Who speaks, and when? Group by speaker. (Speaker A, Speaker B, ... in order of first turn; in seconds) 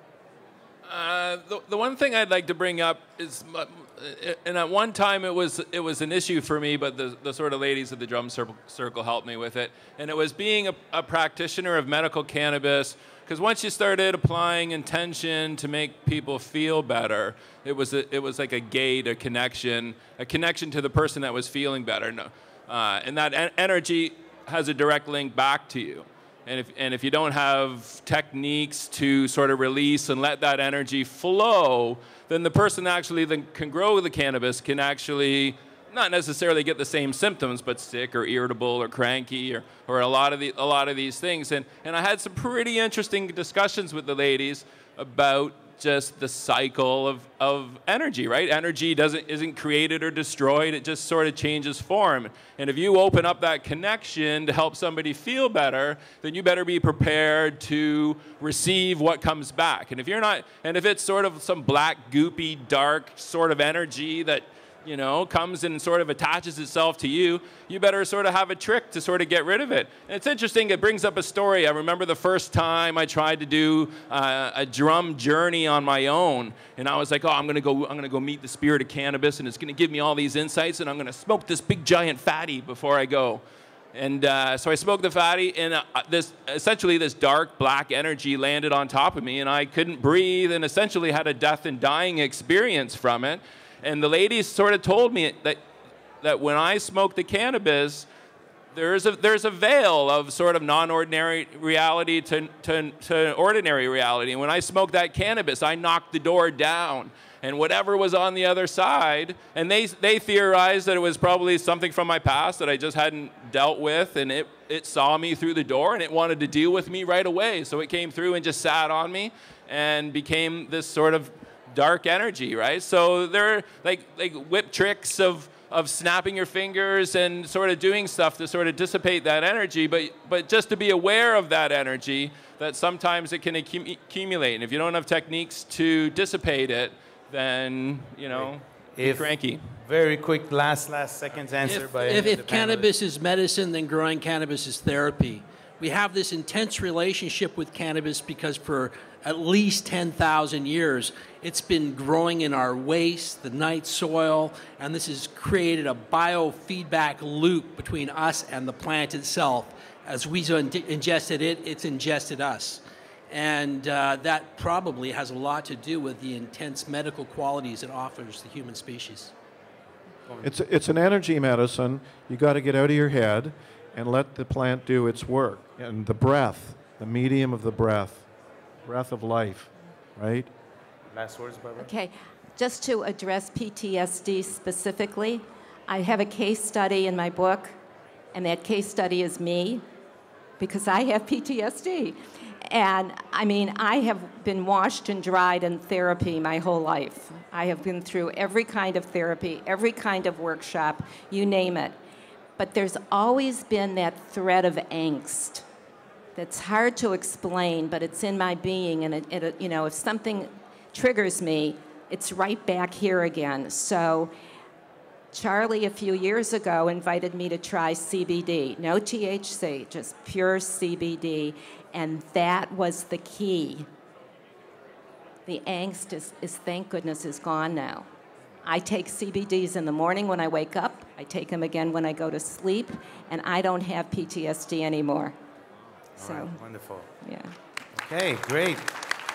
Speaker A: 0.8-83.4, 83.9-95.6, 96.2-98.1, 98.7-139.6
Speaker B: 138.3-142.9, 181.1-181.9, 236.2-237.1, 237.9-239.0
Speaker C: 141.6-169.3
Speaker D: 170.4-178.2, 178.8-180.5
Speaker E: 181.8-187.7, 188.3-189.8, 190.6-201.9, 202.6-205.6, 206.3-214.3, 215.3-223.9, 225.4-228.1, 228.6-235.3, 236.2-236.6, 237.2-237.5